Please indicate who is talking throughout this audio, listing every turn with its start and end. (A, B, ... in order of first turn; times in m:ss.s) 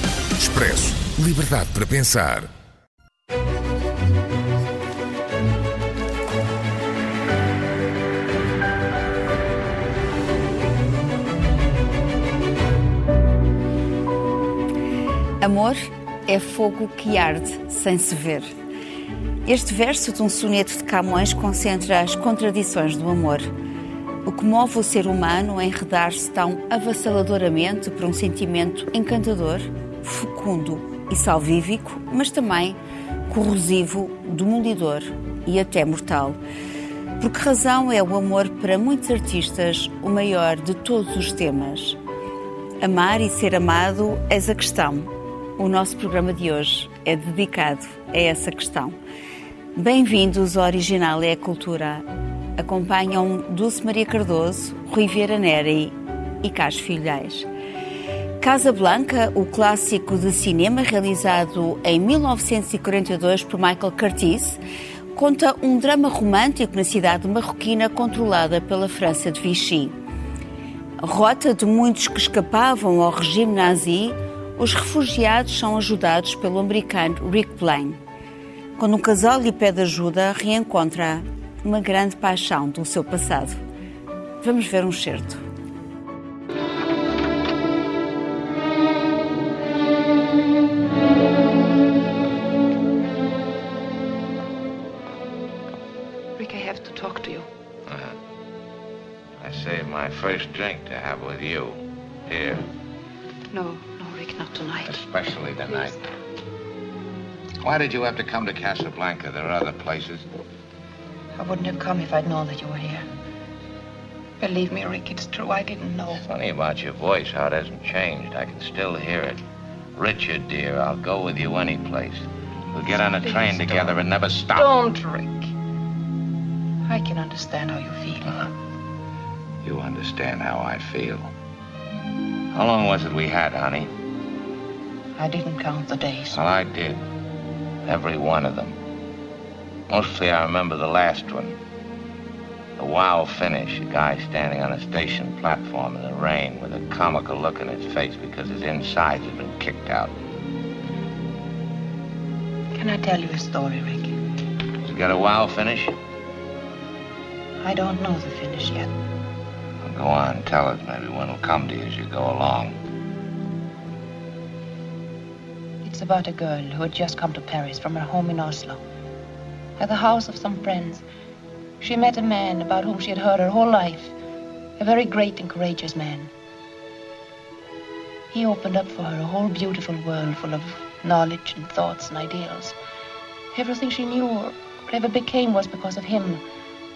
0:00.4-0:02.5 A
0:15.4-0:18.5 B
0:19.5-0:23.5 B
0:24.3-0:36.4 B
0:37.2-0:42.0 B
0:42.8-0:49.0 B
0:49.8-0:52.0 B
0:52.6-0:57.5 B
0:58.4-1:04.6 B
1:05.1-1:10.0 B
1:11.0-1:18.0 B
1:18.8-1:23.6 B
1:24.4-1:25.4 B
1:36.4-1:37.5 C
1:37.9-1:38.2 D
1:39.4-1:42.6 D
1:43.5-1:45.0 C
1:44.9-1:46.0 D
1:45.7-1:46.0 C
1:47.6-1:50.3 D
1:51.4-1:53.1 C
1:54.4-1:56.3 C
1:56.1-1:59.4 D
2:00.0-2:04.8 D
2:02.9-2:05.5 C
2:06.8-2:08.5 C
2:09.6-2:11.3 D
2:12.5-2:13.9 D
2:15.2-2:16.4 C
2:16.3-2:17.0 D
2:17.8-2:18.8 D
2:19.9-2:21.6 D
2:22.8-2:30.1 D
2:32.8-2:34.2 C
2:34.8-2:36.0 D
2:37.6-2:38.9 C
2:39.8-2:42.8 D
2:45.8-2:48.8 C
2:49.8-2:51.0 C
2:51.8-2:54.1 C
2:54.8-2:56.3 C
2:58.3-3:02.8 C
3:03.5-3:06.4 C